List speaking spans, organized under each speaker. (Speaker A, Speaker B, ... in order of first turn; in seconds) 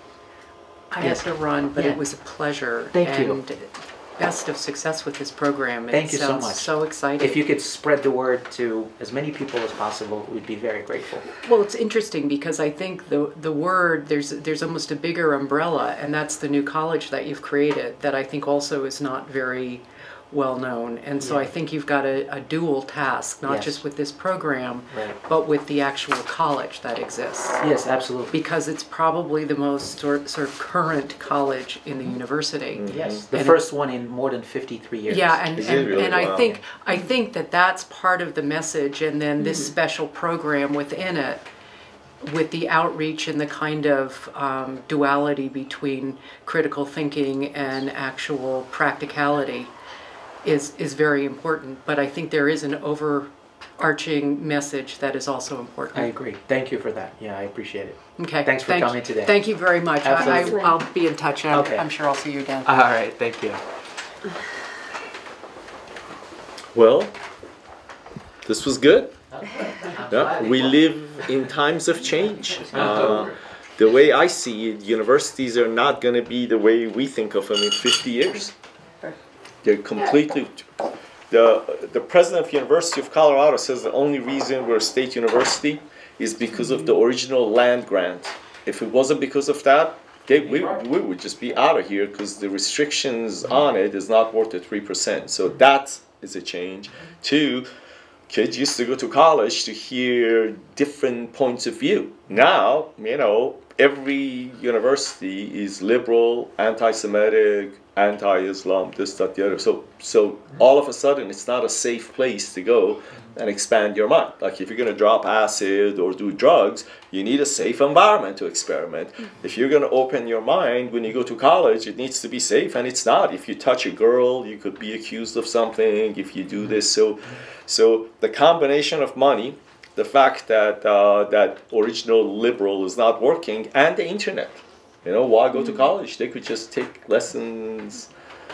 Speaker A: 0.9-7.4, 11.4-27.6, 28.3-33.6, 35.1-41.5, 42.2-49.7, 50.4-56.1, 58.2-62.7
Speaker B: 1.0-2.0, 2.9-3.4, 5.9-11.3, 21.2-21.5, 23.4-23.8, 24.9-25.2, 27.6-28.4, 32.9-36.5, 55.9-60.8, 61.5-61.9, 62.6-63.6, 69.3-70.8, 72.7-73.3, 90.4-90.8
Speaker C: 32.8-33.2, 35.5-36.6, 66.7-67.1, 68.5-69.1, 70.1-78.5, 79.6-80.7, 81.3-97.7, 98.3-138.1